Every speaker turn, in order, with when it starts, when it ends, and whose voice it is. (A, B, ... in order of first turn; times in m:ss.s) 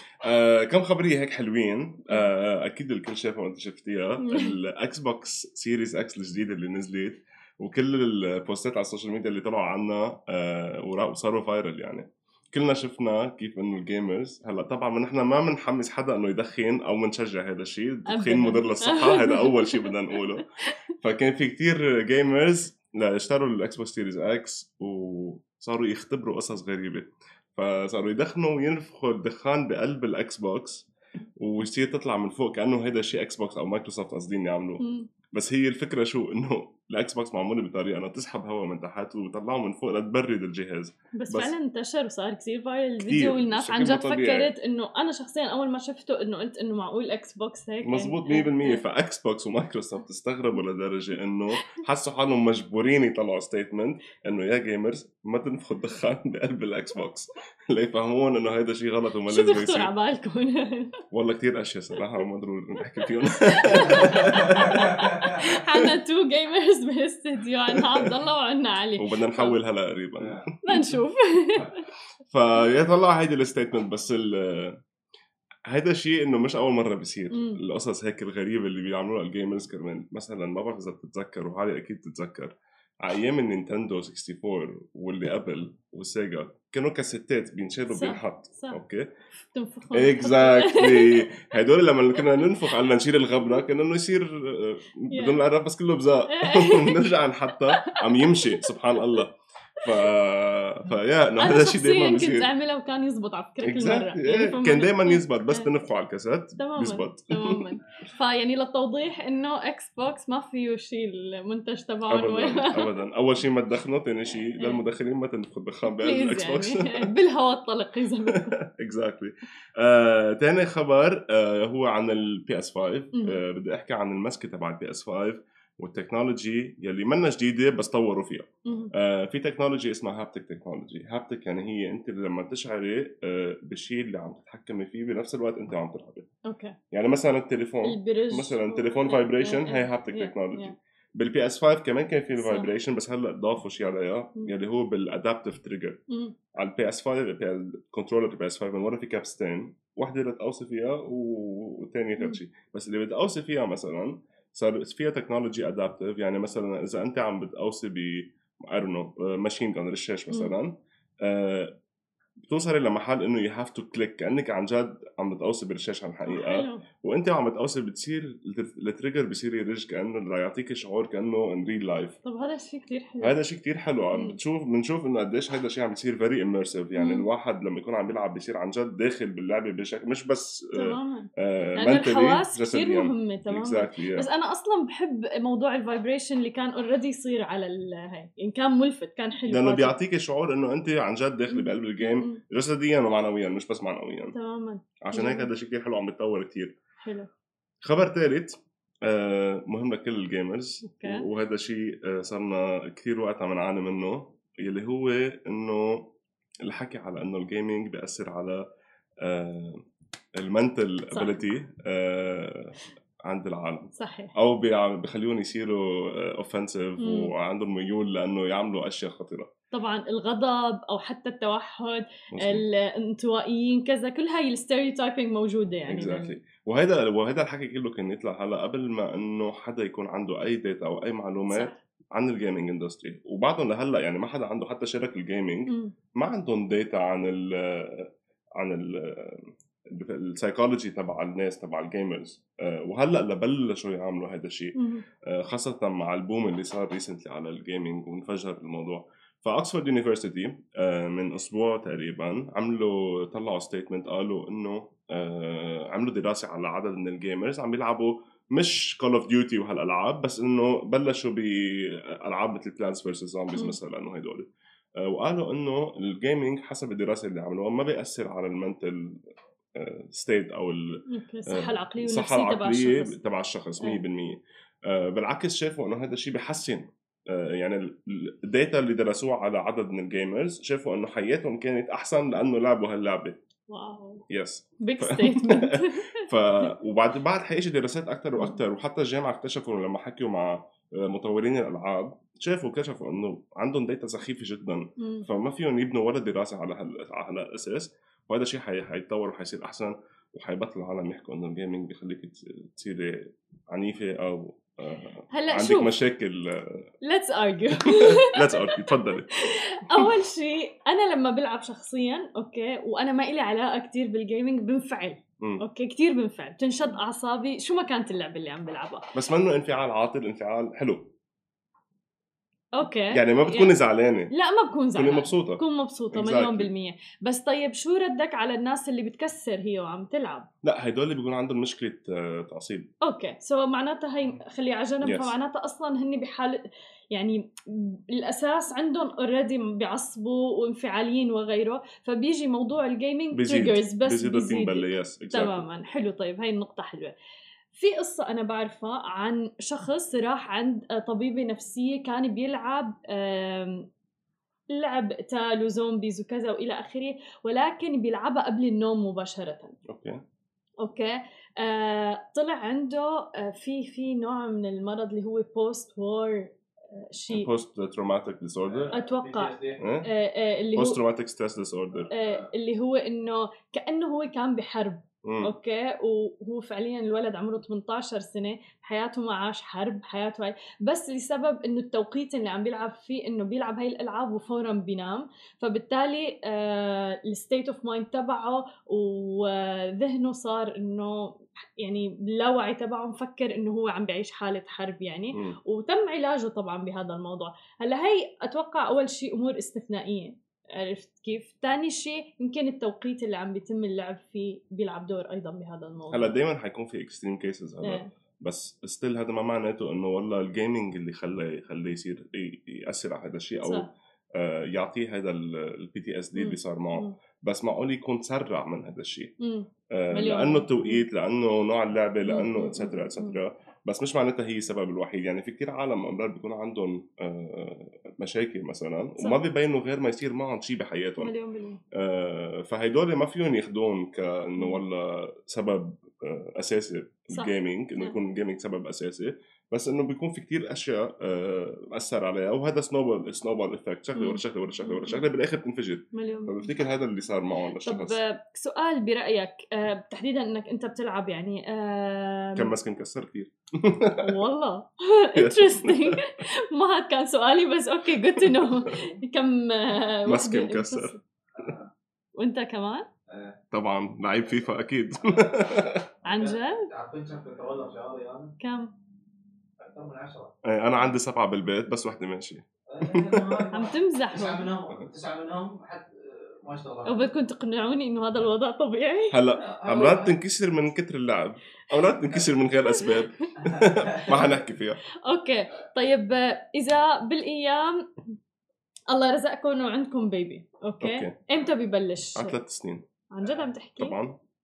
0:00.2-0:20.5 A
0:04.2-0:04.5 B
0:18.1-0:19.9 B
0:21.0-0:41.6 A
0:34.8-0:35.1 B
0:41.2-0:48.8 B
0:43.0-0:44.5 A
0:47.8-0:59.9 A
0:59.3-1:00.9 B
1:01.1-1:05.0 A
1:03.4-1:09.6 B
1:04.8-1:05.3 C
1:09.0-1:10.5 A
1:10.2-1:10.4 C
1:10.6-1:11.8 B
1:12.3-1:14.8 A
1:15.7-1:29.1 A
1:17.3-1:17.6 B
1:27.9-1:28.8 B
1:29.5-1:31.3 B
1:29.9-1:42.5 A
1:35.1-1:35.4 B
1:36.3-1:37.1 B
1:37.8-1:38.7 B
1:41.4-1:45.7 B
1:43.6-1:47.7 A
1:46.6-1:52.9 B
1:52.1-1:57.1 A
1:55.9-1:58.6 B
1:58.3-2:16.3 A
2:03.1-2:03.4 B
2:08.6-2:08.9 B
2:16.4-2:16.8 B
2:16.9-2:26.0 A
2:17.8-2:20.8 B
2:22.4-2:22.7 B
2:26.1-2:26.4 B
2:26.6-2:41.7 A
2:42.5-2:52.2 A
2:46.2-2:46.8 B
2:52.2-2:53.3 B
2:53.2-3:04.3 A
2:57.0-2:57.3 B
3:00.8-3:10.0 B
3:09.5-3:14.4 A
3:11.5-3:12.4 B
3:14.3-3:15.5 B
3:15.0-3:16.8 A
3:17.0-3:17.3 B
3:17.8-3:26.1 A
3:20.8-3:21.2 B
3:26.6-3:28.6 A
3:29.2-3:29.8 A
3:30.4-3:32.8 A
3:33.2-3:39.5 A
3:34.0-3:34.3 B
3:37.0-3:37.3 B
3:39.7-3:46.4 B
3:42.3-3:42.6 A
3:45.9-3:58.1 A
3:51.5-3:51.8 B
3:55.7-3:55.9 B
3:58.6-4:04.8 A
4:04.8-4:05.0 B
4:05.2-4:24.5 A
4:25.0-4:29.2 A
4:29.8-4:43.4 A
4:31.1-4:33.1 B
4:43.7-4:44.2 B
4:44.3-5:06.9 A
4:44.8-4:46.2 B
4:55.0-4:55.2 B
5:05.3-5:05.9 B
5:07.0-5:19.1 B
5:07.8-5:09.3 A
5:19.1-5:21.1 A
5:22.8-5:23.7 B
5:23.1-5:24.3 A
5:24.3-5:30.5 B
5:25.0-5:25.6 A
5:26.1-5:26.7 A
5:30.6-5:32.9 A
5:33.0-5:47.1 B
5:35.0-5:35.4 A
5:43.3-5:45.6 A
5:47.7-5:53.9 B
5:54.7-5:59.8 B
5:59.9-6:00.2 A
6:00.8-6:07.5 B
6:07.3-6:08.9 A
6:08.7-6:09.8 C
6:08.9-6:11.0 B
6:09.8-6:10.1 A
6:10.8-6:12.1 A
6:12.1-6:12.5 C
6:12.1-6:46.4 B
6:15.2-6:15.5 A
6:46.1-6:59.3 A
6:47.8-6:48.1 B
6:53.6-6:53.9 B
6:56.4-6:57.2 B
6:59.4-7:01.0 B
6:59.9-7:11.3 A
7:02.2-7:03.4 B
7:11.2-7:11.8 B
7:11.9-7:28.2 A
7:17.3-7:18.2 B
7:24.1-7:25.2 B
7:26.1-7:26.6 B
7:27.8-7:32.7 B
7:32.6-7:34.4 A
7:34.2-7:41.2 B
7:35.4-7:36.2 A
7:38.4-7:38.7 A
7:40.3-7:41.1 A
7:41.6-7:41.9 C
7:42.4-7:43.1 B
7:43.3-7:43.6 C
7:43.7-7:46.0 A
7:45.2-7:45.7 C
7:46.2-7:46.9 B
7:46.3-7:48.6 C
7:48.6-7:48.9 B
7:49.8-7:50.5 C
7:50.6-7:53.6 A
7:52.9-7:57.3 C
7:53.7-7:54.7 B
7:57.1-7:59.4 B
7:59.3-8:05.0 A
7:59.6-8:00.3 C
8:02.9-8:03.7 B
8:03.6-8:04.6 C
8:05.2-8:08.1 B
8:09.1-8:12.6 B
8:11.0-8:11.4 A
8:12.4-8:13.0 A
8:13.3-8:14.2 B
8:14.0-8:14.4 A